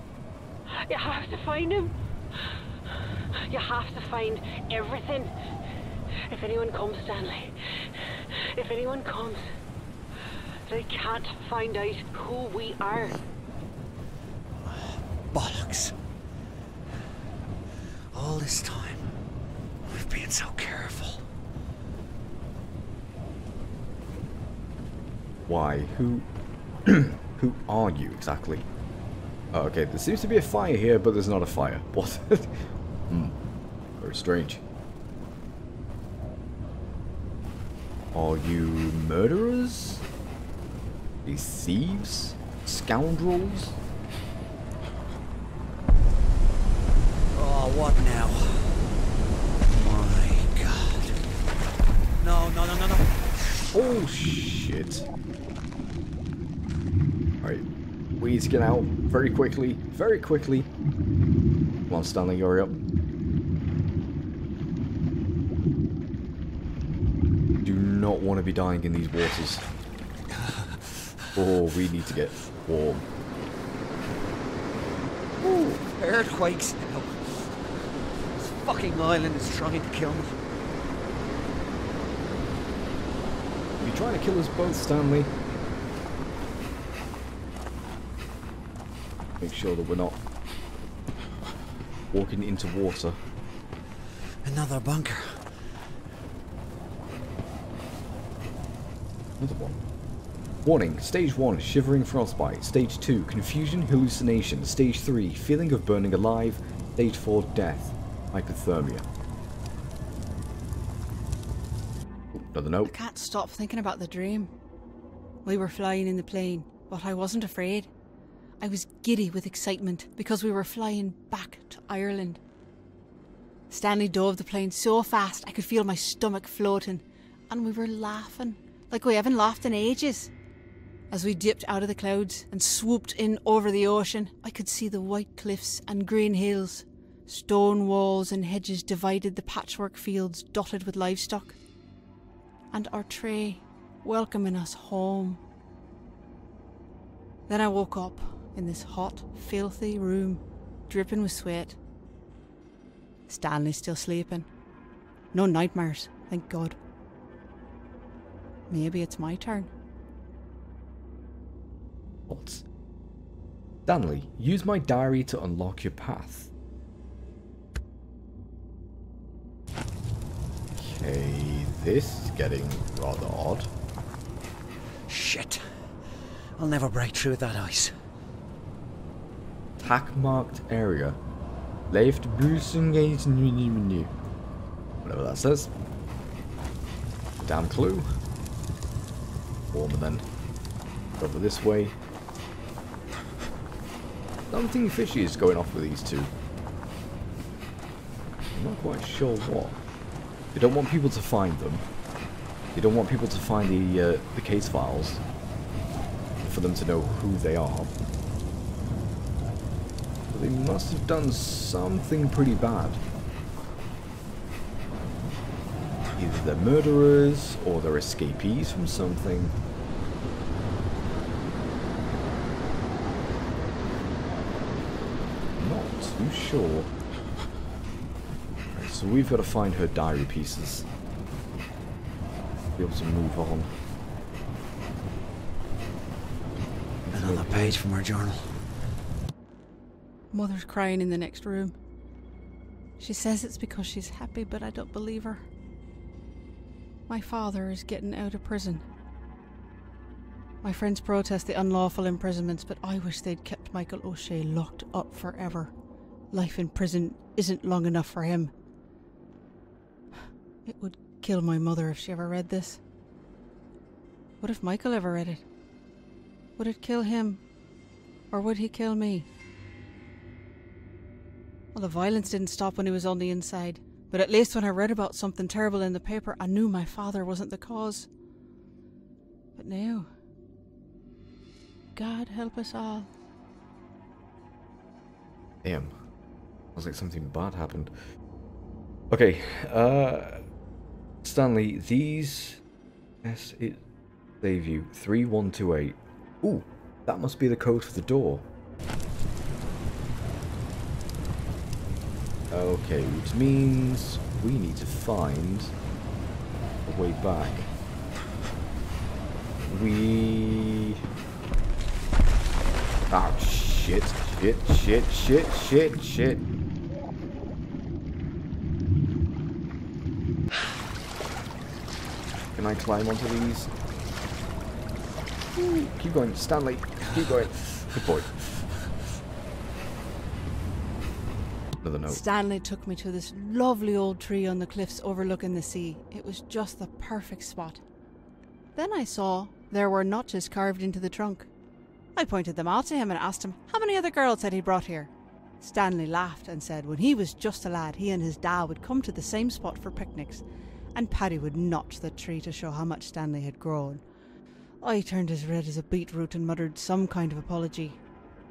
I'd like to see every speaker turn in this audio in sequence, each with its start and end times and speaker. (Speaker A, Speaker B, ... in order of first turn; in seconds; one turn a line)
Speaker A: 0.8-1.9
Speaker A: 2.5-5.3
Speaker A: 6.3-9.5
Speaker A: 10.7-13.2
Speaker B: 14.6-15.9
Speaker B: 18.1-19.1
Speaker B: 19.9-21.2
Speaker C: 25.4-26.3
Speaker C: 26.8-28.7
Speaker C: 29.5-33.4
Speaker C: 34.0-34.6
Speaker C: 38.1-40.0
Speaker C: 41.2-43.8
Speaker B: 47.3-48.8
Speaker B: 49.6-51.2
Speaker B: 52.2-53.2
Speaker C: 53.7-55.0
Speaker C: 58.2-60.7
Speaker C: 61.9-62.8
Speaker C: 67.6-69.7
Speaker B: 70.3-71.5
Speaker C: 71.3-73.0
Speaker C: 75.4-75.7
Speaker B: 75.6-80.3
Speaker C: 83.8-85.3
Speaker C: 89.4-90.2
Speaker C: 92.1-93.2
Speaker B: 94.4-95.5
Speaker C: 99.4-99.8
Speaker C: 100.6-109.0
Speaker C: 112.3-112.9
Speaker D: 112.8-114.5
Speaker D: 115.4-117.9
Speaker D: 118.6-122.4
Speaker D: 123.7-130.3
Speaker D: 131.1-141.6
Speaker D: 142.7-145.4
Speaker D: 147.5-151.8
Speaker D: 153.3-154.5
Speaker D: 155.3-156.8
Speaker D: 158.7-159.7
Speaker C: 162.3-162.6
Speaker C: 163.8-166.5
Speaker C: 170.8-173.7
Speaker B: 175.1-175.6
Speaker B: 176.6-177.9
Speaker C: 179.8-181.2
Speaker C: 181.9-184.1
Speaker C: 185.0-185.7
Speaker C: 187.4-188.1
Speaker C: 189.7-190.2
Speaker C: 191.2-192.0
Speaker C: 194.5-196.3
Speaker C: 198.5-199.8
Speaker C: 200.5-201.9
Speaker C: 202.7-205.2
Speaker C: 206.4-208.0
Speaker C: 210.3-213.0
Speaker C: 216.2-219.6
Speaker C: 225.6-226.9
Speaker C: 228.7-230.9
Speaker C: 232.7-233.7
Speaker C: 237.1-237.8
Speaker B: 237.1-238.6
Speaker D: 240.3-241.7
Speaker D: 243.0-245.4
Speaker D: 247.1-248.8
Speaker D: 250.6-255.7
Speaker D: 256.3-258.5
Speaker D: 260.6-262.8
Speaker D: 264.4-265.4
Speaker D: 266.6-267.4
Speaker D: 268.3-269.3
Speaker D: 271.7-278.1
Speaker D: 279.6-280.1
Speaker D: 281.9-283.1
Speaker C: 285.6-285.9
Speaker C: 286.7-287.9
Speaker C: 289.1-290.4
Speaker C: 291.2-292.6
Speaker C: 293.2-293.8
Speaker C: 294.4-298.4
Speaker C: 302.5-305.7
Speaker C: 306.8-307.7
Speaker C: 309.7-311.0
Speaker C: 313.1-316.5
Speaker C: 322.5-323.7
Speaker C: 325.5-328.3
Speaker C: 331.8-332.2
Speaker D: 332.1-337.8
Speaker D: 338.8-341.5
Speaker D: 342.1-350.4
Speaker D: 350.9-354.0
Speaker D: 354.8-358.0